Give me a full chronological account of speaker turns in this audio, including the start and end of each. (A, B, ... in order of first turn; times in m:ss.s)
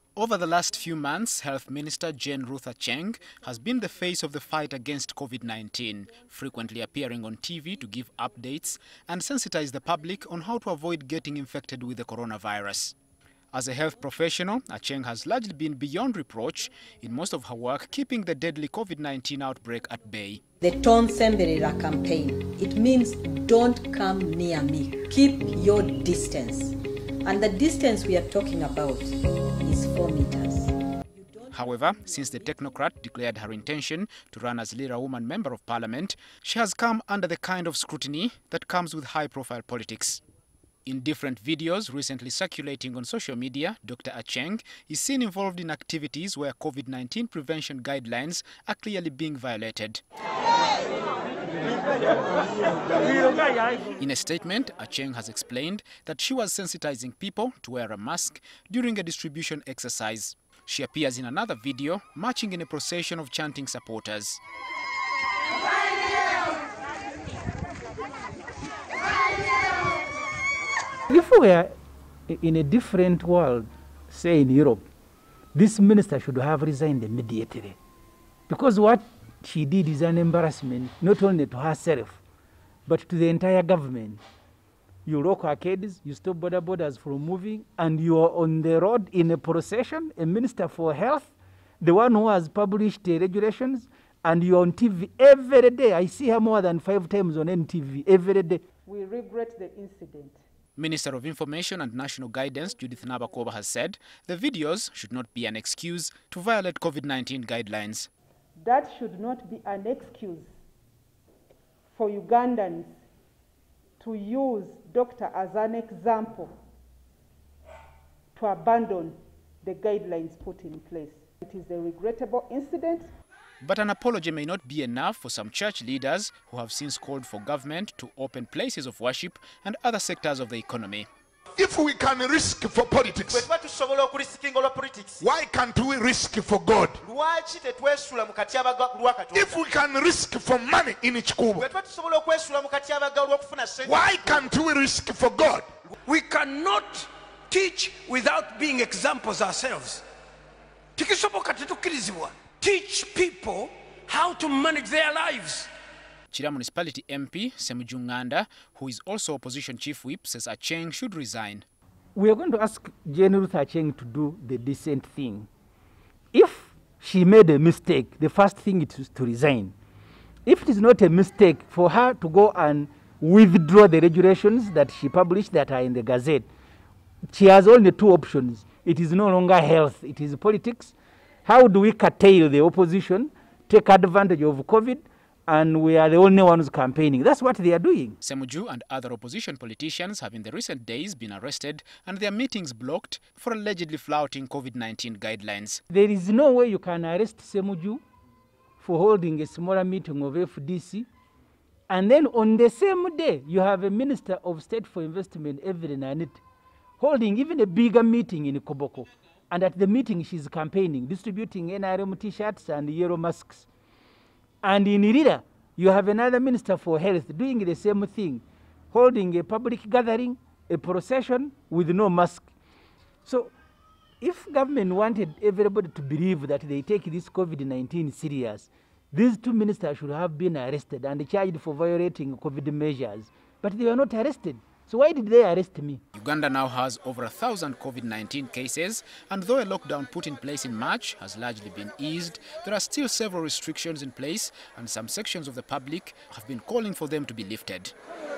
0:00.2-0:13.0 A
0:13.5-0:20.4 A
0:20.6-0:30.8 B
0:31.5-0:40.2 A
0:40.9-0:50.0 A
0:52.9-0:53.5 A
0:54.0-1:04.4 A
1:11.1-1:11.7 C
1:12.3-1:14.8 C
1:15.5-1:17.8 C
1:18.5-1:22.2 C
1:22.9-1:24.2 C
1:25.0-1:38.6 C
1:38.9-1:40.4 D
1:40.8-1:48.1 A
1:48.6-1:50.5 D
1:51.9-1:52.9 D
1:54.0-1:56.5 D
1:58.4-2:03.1 D
2:03.6-2:11.1 A
2:11.6-2:13.5 E
2:13.2-2:15.2 F
2:15.2-2:17.0 E
2:17.0-2:19.6 F
2:19.3-2:21.7 E
2:21.5-2:24.5 F
2:23.8-2:25.7 E
2:26.1-2:30.0 G
2:31.0-2:35.7 G
2:36.3-2:41.6 A
2:42.2-2:45.5 C
2:46.3-2:49.8 C
2:50.4-2:56.5 C
2:57.3-3:00.9 C
3:01.4-3:08.2 C
3:08.2-3:15.8 A
3:15.9-3:18.0 C
3:18.8-3:21.1 C
3:21.9-3:26.4 C
3:27.0-3:33.7 C
3:34.6-3:42.5 C
3:43.2-3:43.5 C
3:44.2-3:56.0 C
3:56.2-4:08.0 A